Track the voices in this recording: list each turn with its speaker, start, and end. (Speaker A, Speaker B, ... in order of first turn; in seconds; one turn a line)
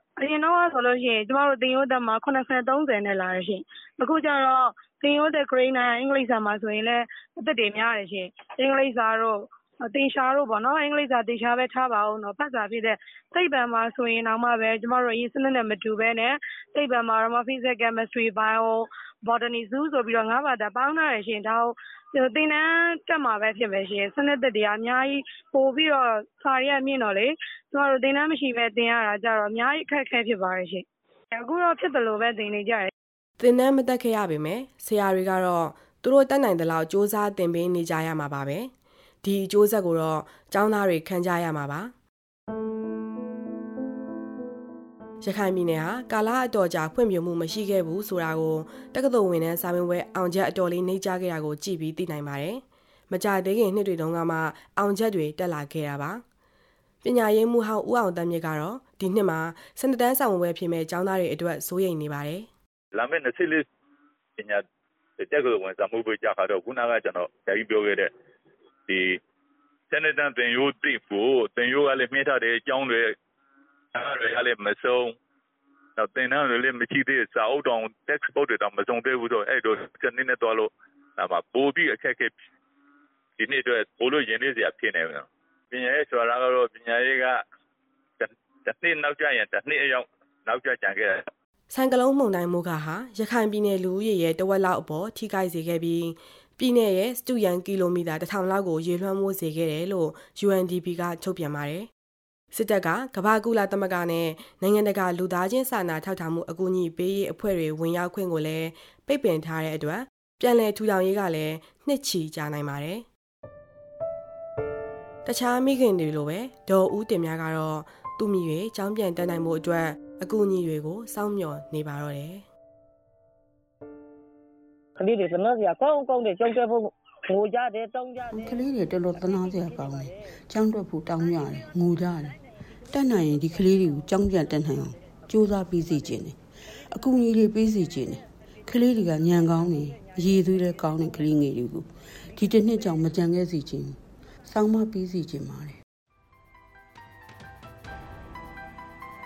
Speaker A: 0.2-9.4
Speaker A: 9.9-30.8
Speaker A: 31.4-32.9
Speaker B: 33.4-38.7
Speaker B: 39.2-41.9
Speaker B: 45.2-56.2
Speaker B: 57.0-62.5
Speaker C: 62.9-63.6
Speaker C: 64.4-64.6
Speaker C: 65.2-68.1
Speaker C: 68.9-69.2
Speaker C: 69.9-73.2
Speaker C: 73.9-75.2
Speaker C: 76.0-82.3
Speaker C: 83.4-87.4
Speaker C: 88.2-91.3
Speaker B: 91.7-101.9
Speaker B: 102.5-113.0
Speaker B: 115.2-122.5
Speaker D: 125.0-128.4
Speaker E: 128.3-132.4
Speaker E: 132.9-136.4
Speaker E: 136.9-145.8